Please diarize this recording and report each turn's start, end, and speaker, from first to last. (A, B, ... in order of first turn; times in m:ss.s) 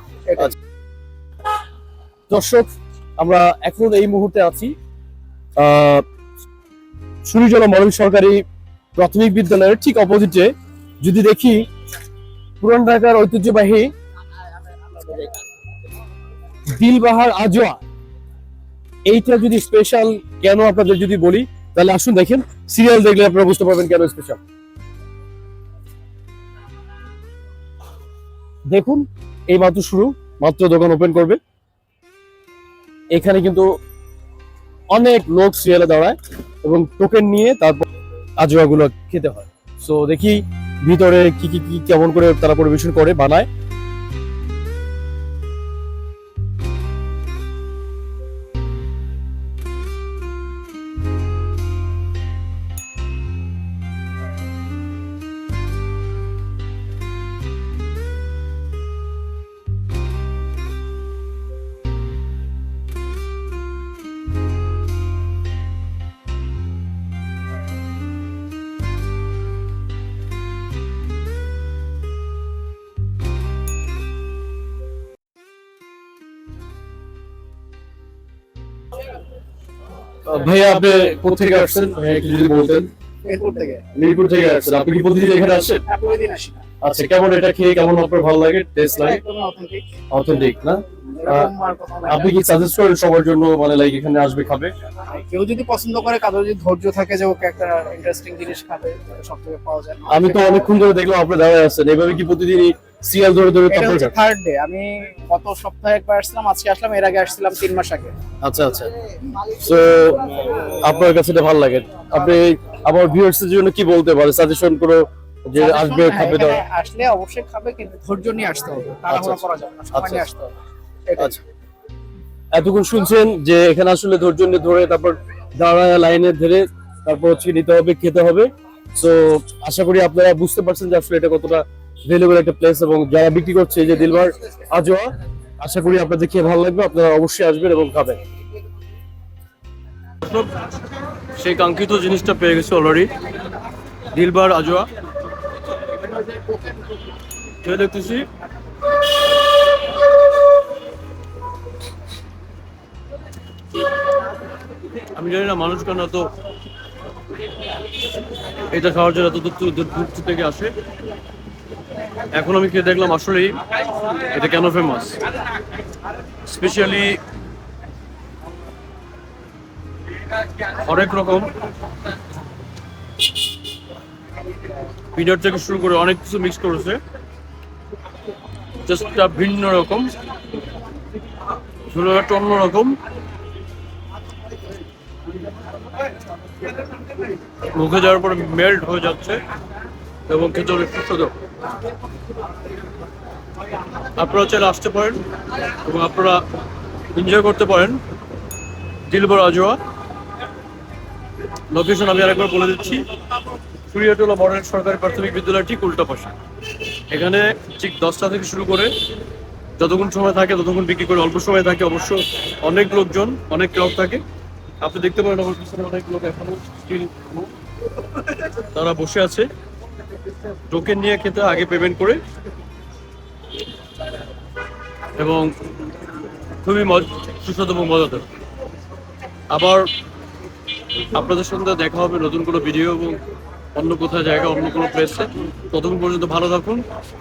0:00.3-0:00.5 A
0:02.3-0:04.7 B
0:05.6-0:06.0 B
0:07.2-0:08.4 B
0:09.0-0:11.6 B
0:12.6-0:13.9 B
0:16.7-0:17.8 B
0:19.0-0:24.4 B
0:28.7-0:31.4 B
0:33.1-0:33.7 B
0:34.9-0:37.8 B
0:38.4-0:43.5 B
1:20.2-1:22.9 B
1:23.2-1:23.8 A
1:23.9-1:25.8 B
1:25.9-1:26.6 A
1:26.8-1:29.2 B
1:29.0-1:29.8 A
1:30.1-1:31.5 B
1:31.2-1:32.3 A
1:32.1-1:34.7 B
1:35.1-1:40.7 A
1:40.1-1:44.1 B
1:43.7-1:48.1 A
1:48.4-1:48.9 B
1:49.6-1:56.6 B
1:55.6-2:00.5 A
1:59.1-2:00.2 B
2:01.1-2:01.4 A
2:02.5-2:18.2 B
2:20.2-2:20.5 C
2:21.4-2:23.1 C
2:24.1-2:24.9 C
2:27.6-2:28.3 C
2:35.1-2:36.3 C
2:38.7-2:40.7 C
2:42.3-2:45.2 C
2:46.4-2:47.2 C
2:50.6-2:51.5 C
2:55.1-2:57.0 C
2:58.8-3:00.1 C
3:01.9-3:03.0 C
3:07.7-3:09.4 C
3:10.3-3:11.3 C
3:14.2-3:16.4 C
3:17.1-3:18.0 C
3:19.1-3:19.8 C
3:21.7-3:23.0 C
3:23.8-3:26.3 C
3:27.1-3:29.0 C
3:29.8-3:34.2 C
3:34.8-3:37.5 C
3:38.3-3:39.5 C
3:40.6-3:42.2 C
3:45.2-3:45.5 C
3:46.6-3:48.2 C
3:49.5-3:49.9 C
3:51.1-3:53.2 C
3:53.7-3:56.8 C